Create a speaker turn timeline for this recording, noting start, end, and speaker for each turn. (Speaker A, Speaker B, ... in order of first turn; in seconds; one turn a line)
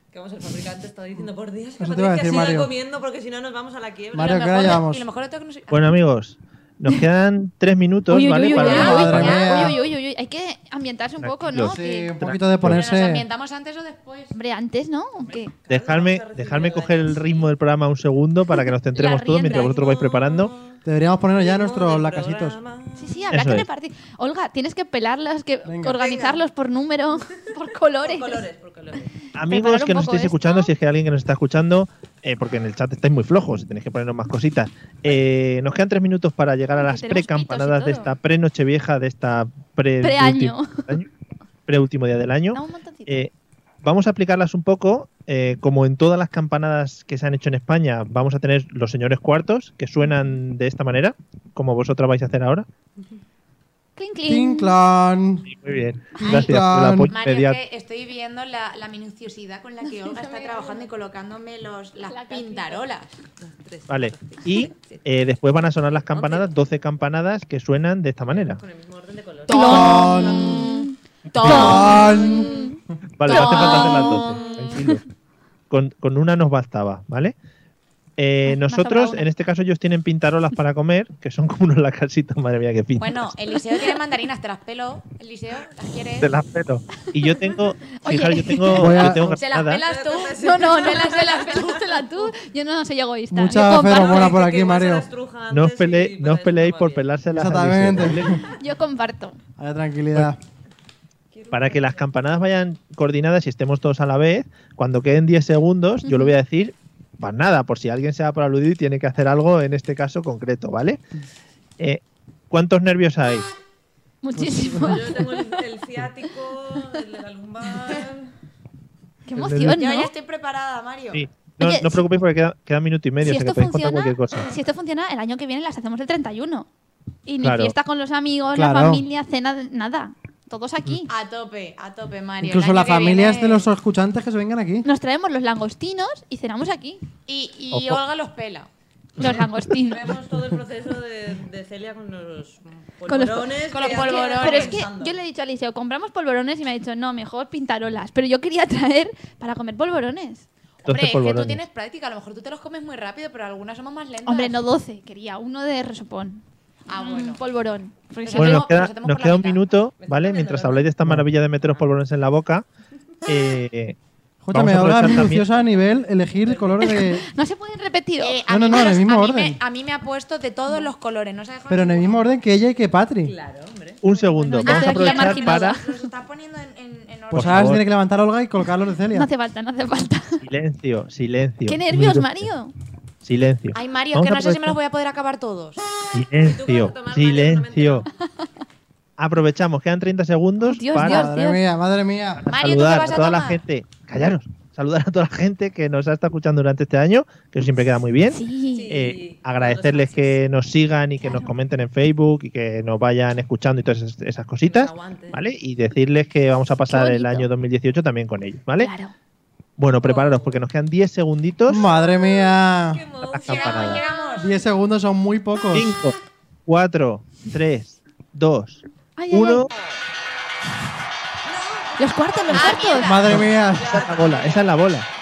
Speaker A: 0.1-4.7
Speaker B: 1.8-2.7
Speaker B: 4.1-5.0
Speaker C: 4.2-6.0
Speaker D: 5.7-9.3
Speaker E: 8.1-12.1
Speaker C: 8.5-9.7
Speaker B: 8.6-9.8
Speaker D: 11.2-12.8
Speaker B: 11.7-13.2
Speaker C: 12.6-14.3
Speaker E: 14.3-15.5
Speaker A: 15.2-17.5
Speaker D: 15.7-20.5
Speaker E: 18.9-19.9
Speaker A: 19.4-20.8
Speaker B: 20.8-22.6
Speaker A: 21.3-23.3
Speaker E: 23.0-28.4
Speaker D: 23.3-23.7
Speaker B: 25.6-26.0
Speaker A: 25.9-26.4
Speaker A: 28.0-29.1
Speaker D: 29.3-41.1
Speaker E: 29.5-30.7
Speaker E: 36.8-38.1
Speaker E: 40.0-40.9
Speaker D: 41.7-43.3
Speaker E: 42.5-43.2
Speaker D: 43.8-52.7
Speaker E: 54.0-54.8
Speaker B: 54.3-55.5
Speaker D: 55.5-57.6
Speaker C: 56.2-56.5
Speaker B: 56.2-57.1
Speaker C: 57.1-63.1
Speaker E: 60.0-60.9
Speaker E: 62.0-62.8
Speaker A: 63.4-65.0
Speaker D: 63.9-68.6
Speaker A: 66.1-66.5
Speaker A: 68.3-70.2
Speaker C: 69.5-74.8
Speaker E: 69.5-70.9
Speaker B: 69.5-70.7
Speaker D: 71.4-71.8
Speaker B: 71.4-72.5
Speaker E: 71.5-72.7
Speaker A: 72.0-72.4
Speaker D: 73.2-75.0
Speaker E: 73.3-74.3
Speaker A: 74.0-74.7
Speaker D: 75.7-77.3
Speaker D: 78.2-83.3
Speaker E: 78.5-79.3
Speaker C: 83.0-86.3
Speaker D: 86.2-89.8
Speaker E: 88.0-89.0
Speaker B: 88.8-89.4
Speaker C: 89.2-91.7
Speaker A: 89.8-92.3
Speaker E: 90.4-94.3
Speaker B: 93.3-95.1
Speaker A: 93.8-97.1
Speaker D: 95.5-98.4
Speaker B: 97.3-98.4
Speaker E: 98.3-99.4
Speaker B: 99.6-100.4
Speaker A: 101.3-102.0
Speaker D: 101.5-111.0
Speaker E: 106.0-106.3
Speaker D: 111.8-113.5
Speaker E: 114.2-115.6
Speaker B: 114.3-115.0
Speaker A: 114.8-118.3
Speaker E: 119.3-120.1
Speaker D: 119.4-119.7
Speaker C: 119.6-121.3
Speaker D: 121.1-124.5
Speaker E: 121.6-122.0
Speaker E: 123.2-126.7
Speaker E: 127.3-131.1
Speaker D: 127.4-127.7
Speaker B: 128.5-129.1
Speaker C: 131.1-133.7
Speaker B: 132.4-134.9
Speaker E: 134.8-137.0
Speaker C: 137.3-138.7
Speaker D: 137.7-138.0
Speaker E: 139.2-140.1
Speaker A: 139.8-145.2
Speaker E: 143.1-150.4
Speaker C: 143.7-144.8
Speaker C: 150.8-154.6
Speaker D: 150.8-151.6
Speaker E: 154.2-158.7
Speaker C: 156.9-157.4
Speaker C: 158.3-159.6
Speaker D: 158.4-162.6
Speaker A: 160.0-160.9
Speaker D: 163.3-164.0
Speaker B: 164.4-167.3
Speaker D: 164.5-165.4
Speaker A: 165.6-167.0
Speaker E: 166.8-168.4
Speaker C: 168.2-172.3
Speaker B: 168.5-169.6
Speaker B: 171.7-173.3
Speaker A: 173.2-174.6
Speaker D: 174.0-175.8
Speaker E: 174.6-176.0
Speaker C: 174.6-177.8
Speaker D: 177.3-177.8
Speaker B: 177.3-179.3
Speaker E: 179.1-180.4
Speaker D: 180.4-182.4
Speaker E: 181.7-182.7
Speaker D: 183.2-184.8
Speaker C: 183.7-185.8
Speaker D: 186.1-188.1
Speaker A: 186.4-188.1
Speaker D: 189.2-191.3
Speaker E: 190.6-191.6
Speaker B: 190.9-192.4
Speaker D: 192.4-208.9
Speaker C: 192.5-193.6
Speaker E: 198.3-198.9
Speaker A: 198.7-200.4
Speaker E: 201.2-201.5
Speaker A: 204.6-205.4
Speaker E: 206.9-207.5
Speaker E: 208.8-209.1
Speaker D: 209.8-211.9
Speaker A: 210.0-210.6
Speaker B: 211.7-213.0
Speaker A: 211.9-214.6
Speaker D: 213.3-214.0
Speaker C: 213.4-214.6
Speaker B: 214.4-215.9
Speaker D: 215.7-219.7
Speaker E: 219.2-219.7
Speaker A: 221.4-222.9
Speaker E: 222.0-223.1
Speaker C: 222.5-223.4
Speaker B: 222.9-224.1
Speaker D: 223.3-225.1
Speaker A: 223.7-224.7
Speaker C: 224.0-224.4